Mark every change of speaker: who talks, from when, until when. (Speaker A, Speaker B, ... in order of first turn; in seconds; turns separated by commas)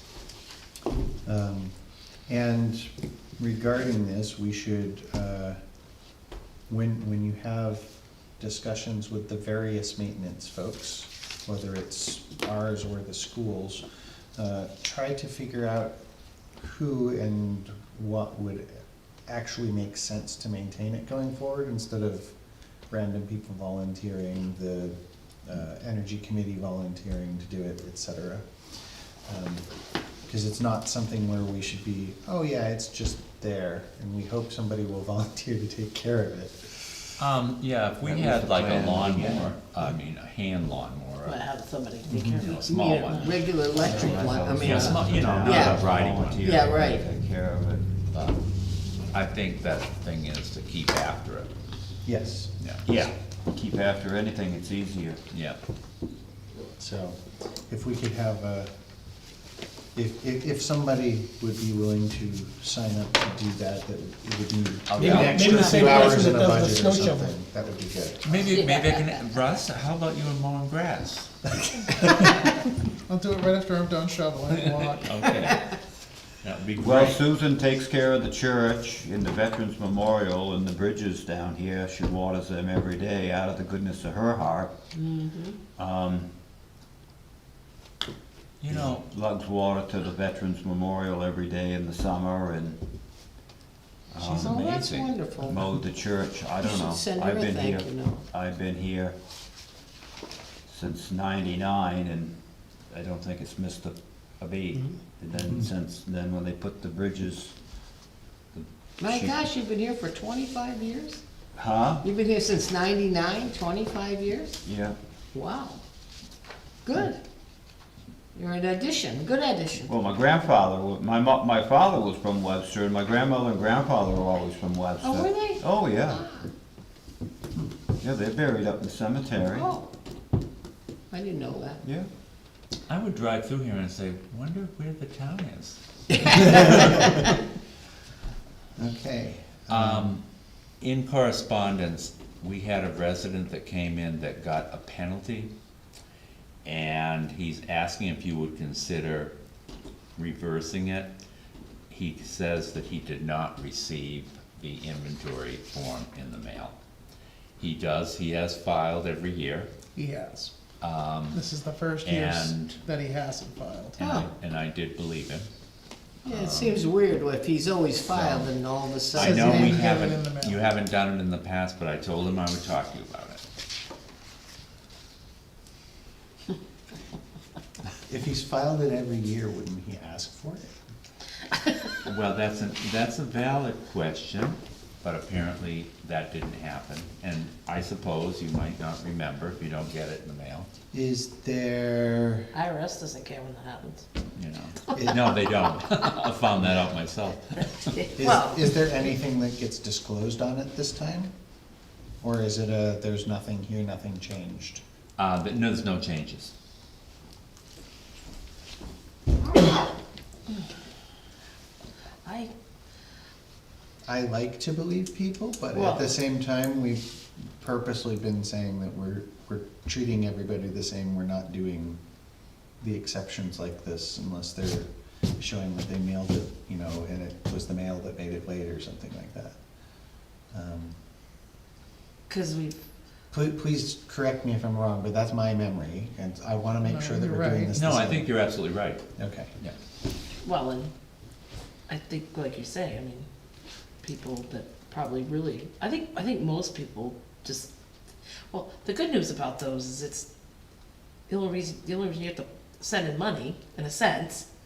Speaker A: 1.2-1.7, Speaker A: 2.3-5.6, Speaker A: 6.7-13.8, Speaker A: 14.3-16.0, Speaker A: 16.6-22.4, Speaker A: 22.9-28.5, Speaker A: 29.3-29.6, Speaker A: 30.3-36.9, Speaker B: 37.2-41.4, Speaker C: 38.0-39.5, Speaker D: 41.2-43.4, Speaker A: 42.0-42.5, Speaker B: 42.4-46.5, Speaker E: 42.6-47.0, Speaker C: 43.7-47.9, Speaker B: 48.1-48.4, Speaker B: 49.1-51.5, Speaker A: 52.0-52.5, Speaker C: 52.8-55.2, Speaker B: 55.3-55.6, Speaker A: 56.8-58.7, Speaker A: 60.0-68.5, Speaker B: 64.9-65.9, Speaker F: 65.0-67.3, Speaker B: 68.2-71.3, Speaker D: 68.5-69.2, Speaker F: 72.2-72.5, Speaker F: 73.0-75.3, Speaker B: 74.6-75.8, Speaker B: 76.4-77.2, Speaker C: 76.8-84.7, Speaker D: 85.1-85.5, Speaker E: 85.1-85.4, Speaker C: 85.7-86.3, Speaker B: 88.6-89.1, Speaker C: 88.7-92.8, Speaker C: 94.1-94.7, Speaker B: 94.2-95.1, Speaker E: 94.4-95.6, Speaker C: 95.4-99.2, Speaker E: 96.6-98.2, Speaker C: 100.7-102.4, Speaker C: 102.9-107.5, Speaker C: 108.5-109.4, Speaker E: 109.0-111.2, Speaker C: 111.5-112.0, Speaker E: 112.0-114.6, Speaker C: 114.6-115.0, Speaker E: 115.3-115.8, Speaker E: 116.8-117.2, Speaker E: 118.3-119.9, Speaker C: 119.9-126.2, Speaker E: 125.0-126.4, Speaker C: 128.0-129.7, Speaker E: 129.5-129.9, Speaker E: 131.1-131.8, Speaker C: 131.8-132.1, Speaker B: 132.9-137.2, Speaker A: 138.8-140.2, Speaker B: 139.7-140.2, Speaker B: 140.8-145.5, Speaker B: 146.6-149.3, Speaker B: 150.2-151.1, Speaker B: 151.9-156.8, Speaker B: 157.6-159.7, Speaker F: 159.9-160.5, Speaker B: 160.8-161.4, Speaker F: 161.3-164.0, Speaker B: 162.0-162.8, Speaker B: 164.0-165.5, Speaker E: 164.0-164.3, Speaker E: 166.2-169.8, Speaker B: 166.2-166.9, Speaker B: 168.1-168.5, Speaker B: 169.1-173.4, Speaker F: 169.2-170.6, Speaker A: 178.1-180.7, Speaker B: 182.0-190.7, Speaker A: 190.9-192.5, Speaker D: 192.5-194.0, Speaker B: 194.3-198.0, Speaker A: 194.9-195.4, Speaker D: 198.0-198.7, Speaker A: 198.2-201.3, Speaker A: 202.2-204.8, Speaker B: 205.2-206.5, Speaker D: 209.6-209.8, Speaker D: 212.2-212.5, Speaker A: 214.0-222.0, Speaker D: 215.7-216.1, Speaker A: 222.8-229.6, Speaker A: 230.5-230.9, Speaker D: 232.3-232.8, Speaker A: 233.3-238.3, Speaker F: 236.8-237.7, Speaker B: 237.7-239.8, Speaker A: 239.2-239.5, Speaker D: 240.4-240.9, Speaker D: 241.9-243.3, Speaker D: 244.0-247.7, Speaker D: 248.5-250.3, Speaker D: 251.3-254.5